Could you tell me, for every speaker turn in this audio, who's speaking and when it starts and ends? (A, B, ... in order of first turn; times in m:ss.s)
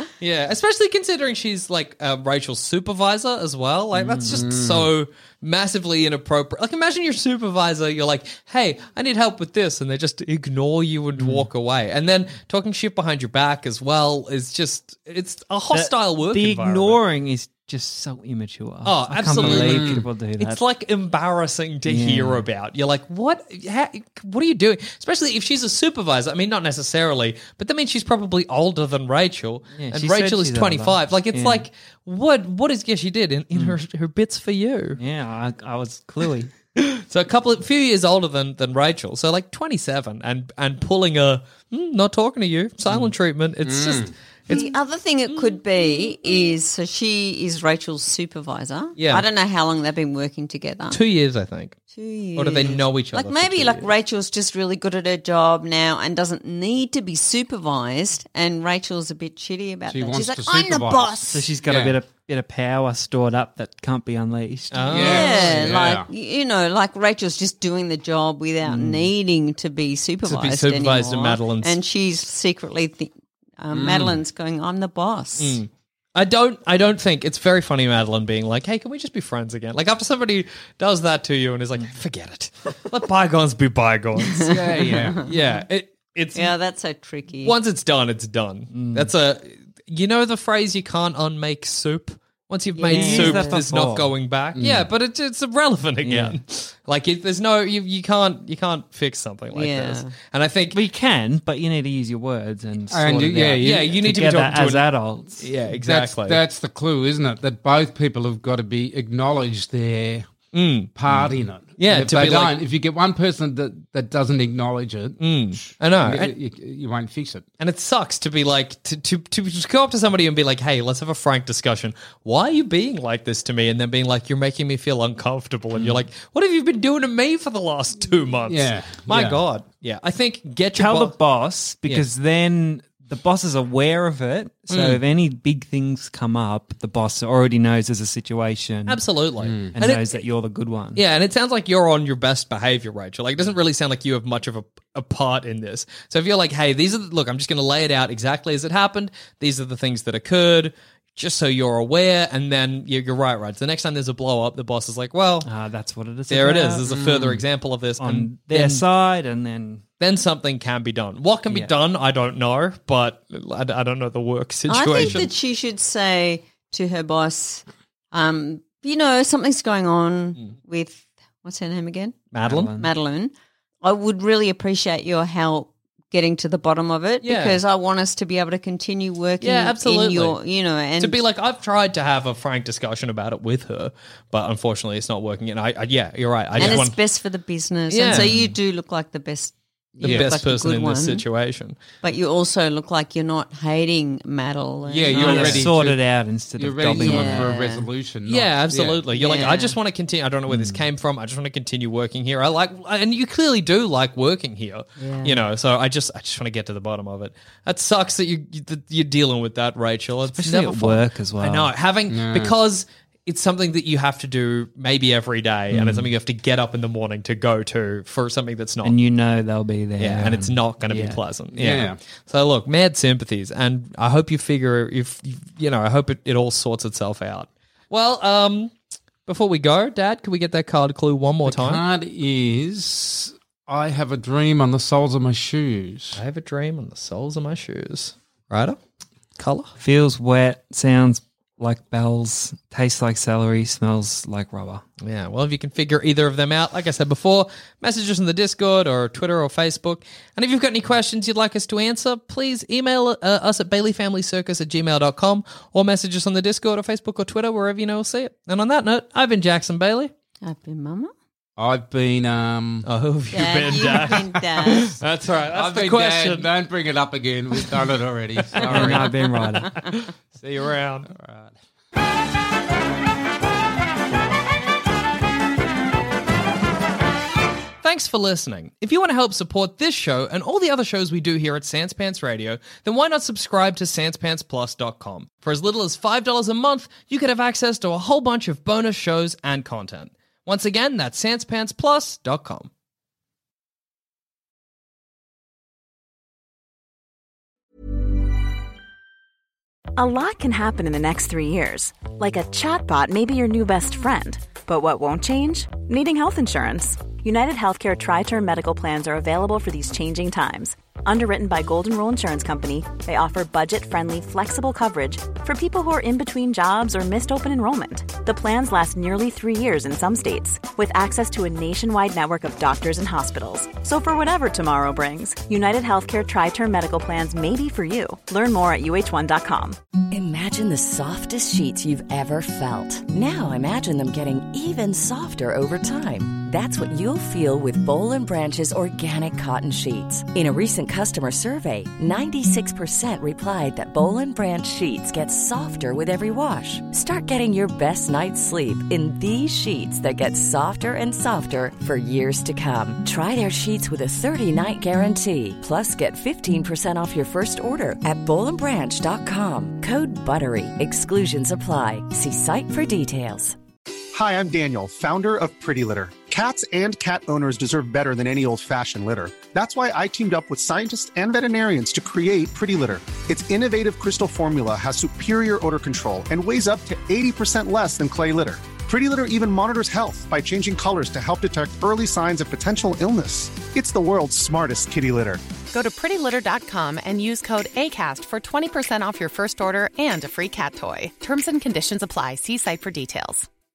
0:00.2-0:17.0 A
0:04.0-0:04.4 B
0:04.2-0:04.9 C
0:11.2-0:11.5 B
0:15.7-0:20.6 B
0:18.8-0:35.0 A
0:19.3-0:20.1 C
0:21.9-0:22.5 B
0:29.8-0:31.7 B
0:35.0-0:36.5 B
0:36.8-0:44.7 A
0:43.6-0:44.1 C
0:44.5-0:51.0 D
0:49.0-0:49.3 A
0:50.9-0:51.8 A
0:51.9-1:01.5 D
0:52.4-0:53.9 A
0:59.9-1:02.0 C
1:01.3-1:05.7 B
1:04.7-1:05.7 A
1:04.9-1:06.1 C
1:05.0-1:15.6 D
1:08.6-1:09.1 B
1:10.2-1:11.8 A
1:13.7-1:14.2 C
1:15.4-1:26.5 A
1:24.2-1:25.1 D
1:24.4-1:25.2 C
1:26.4-1:27.5 D
1:27.4-1:40.8 A
1:28.7-1:29.1 B
1:32.8-1:33.5 D
1:32.9-1:34.1 B
1:34.6-1:34.9 C
1:36.0-1:36.4 B
1:39.5-1:40.1 D
1:40.7-1:45.4 B
1:42.9-1:44.0 C
1:43.6-1:44.9 A
1:45.4-1:46.4 A
1:45.7-1:50.3 C
1:50.5-1:52.6 A
1:51.0-1:57.4 C
1:55.2-1:56.3 A
1:57.6-2:11.2 A
2:08.5-2:09.4 C
2:10.8-2:19.0 B
2:14.7-2:15.0 A
2:18.9-2:20.2 A
2:19.4-2:19.7 C
2:19.7-2:21.0 B
2:21.0-2:35.5 A
2:35.4-2:37.0 B
2:36.3-2:38.9 A
2:36.9-2:37.4 C
2:38.0-2:39.8 B
2:40.0-2:45.3 A
2:44.7-2:52.2 D
2:52.3-2:52.7 A
2:52.4-2:52.9 B
2:52.8-2:53.3 D
2:53.8-3:01.2 D
2:57.2-2:57.6 A
2:59.4-3:00.4 A
3:01.0-3:07.0 A
3:06.6-3:11.2 D
3:07.9-3:08.4 A
3:10.0-3:10.4 C
3:10.0-3:11.8 A
3:12.0-3:15.7 D
3:14.9-3:16.0 C
3:15.1-3:17.6 B
3:15.2-3:15.6 A
3:16.6-3:19.1 C
3:16.9-3:17.9 D
3:18.3-3:39.0 A
3:19.1-3:19.8 D
3:20.5-3:20.8 B
3:25.0-3:25.4 D
3:30.4-3:31.7 B
3:32.1-3:32.5 C
3:35.7-3:36.1 B
3:38.8-3:41.2 B
3:40.0-3:48.7 A
3:41.6-3:42.0 C
3:49.3-3:51.8 A
3:51.4-3:56.2 C
3:56.2-3:58.8 A
3:59.4-3:59.7 A
3:59.8-4:04.8 B
4:05.0-4:20.1 A
4:20.4-4:21.1 D
4:21.6-4:22.9 C
4:22.9-4:26.5 A
4:23.3-4:25.0 D
4:25.5-4:29.1 C
4:28.5-4:29.0 A
4:28.6-4:29.8 B
4:29.8-4:31.1 A
4:31.1-4:31.6 C
4:37.8-4:52.7 A
5:00.0-5:29.8 E
5:30.1-6:03.6 F
6:04.1-6:25.4 G
6:25.7-6:33.5 H